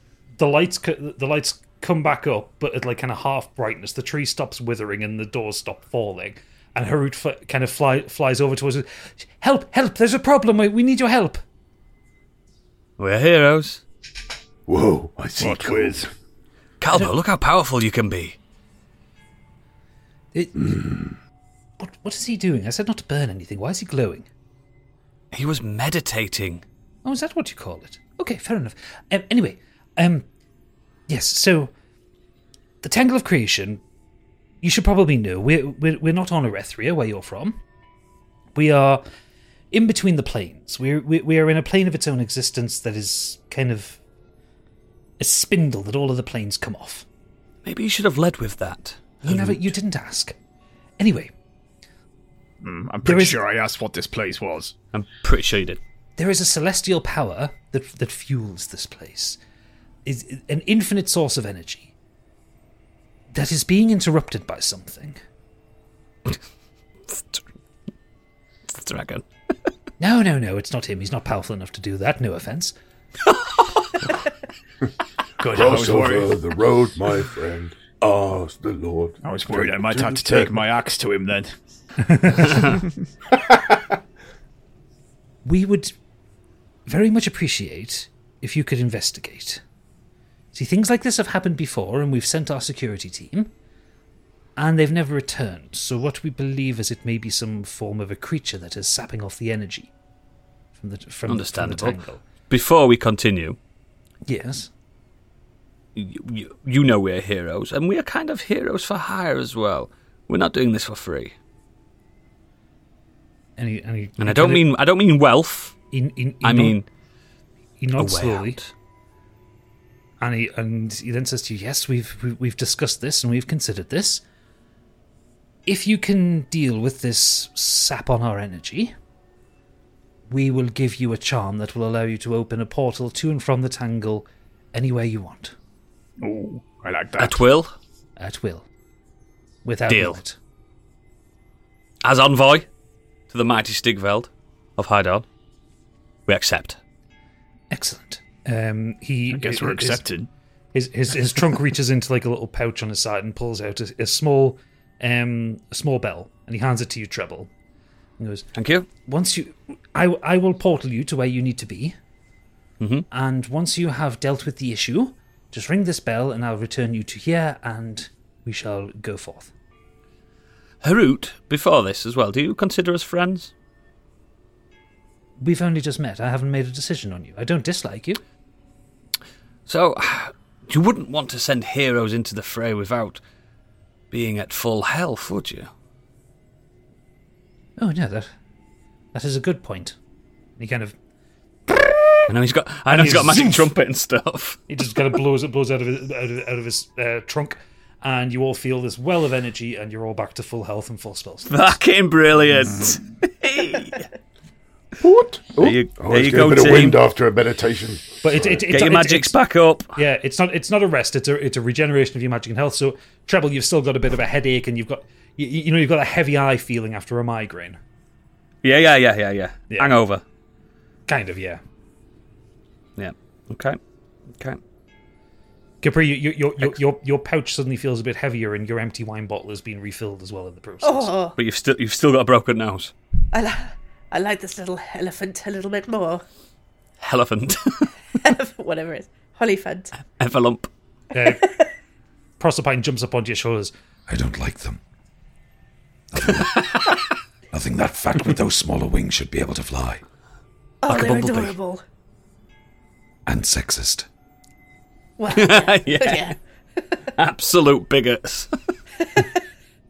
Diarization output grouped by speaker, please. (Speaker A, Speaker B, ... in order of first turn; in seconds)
Speaker A: 0.4-11.4, 20.3-20.6, 21.8-24.3, 27.0-30.2, 31.1-31.7, 32.8-33.8, 34.6-37.6, 38.5-39.0, 39.7-44.0, 45.2-47.0, 49.2-50.4, 51.0-51.3, 53.0-53.4, 56.2-59.4, 60.0-61.9, 63.3-65.2, 70.0-72.7, 82.0-82.7, 85.4-85.9, 86.9-89.6, 90.5-93.5, 94.6-99.9, 100.8-102.2, 104.2-104.7, 113.6-114.7, 115.9-116.8, 117.8-118.6, 120.2-124.2, 125.7-128.9, 130.3-135.5, 138.2-138.7, 139.6-140.4, 147.7-150.0, 150.7-157.5, 158.2-158.5, 159.1-161.9, 163.1-169.5, 175.4-178.2, 187.8-188.3, 189.1-189.9, 190.6-190.9, 191.7-192.3, 192.9-193.7, 194.7-201.7, 208.2-209.4, 209.9-217.8, 219.7-220.0, 221.1-221.6, 225.8-231.1, 241.1-241.4, 242.4-243.7
Speaker B: 13.0-13.8, 16.8-18.4, 25.3-26.6, 47.6-49.7, 54.9-55.8, 67.1-67.4, 68.7-69.2, 73.3-73.9, 101.3-103.6, 106.0-111.3, 114.2-115.8, 116.4-116.8, 118.0-118.7, 137.2-137.7, 139.9-140.2, 142.0-142.7, 143.3-145.2, 146.3-146.8, 158.5-158.9, 162.8-163.1, 170.8-173.5, 179.7-183.2, 184.1-185.7, 192.3-194.6, 201.5-204.1, 205.6-207.0, 208.7-210.0, 218.6-220.2, 223.0-223.8, 224.3-224.6, 231.3-232.9, 237.0-237.9, 240.1-240.7, 246.6-246.9, 250.9-251.5, 255.3-256.3, 257.1-258.5
Speaker C: 14.7-16.1, 20.6-21.1, 75.4-80.7, 205.0-208.6
Speaker D: 15.4-16.1, 52.6-54.7, 75.4-76.4, 79.2-81.5, 136.2-137.4, 149.3-150.3
Speaker E: 230.8-231.3, 233.3-236.2, 238.1-239.9, 250.8-251.8, 255.2-256.4
Speaker F: 244.1-244.8, 246.1-246.7, 247.5-250.0, 253.2-254.1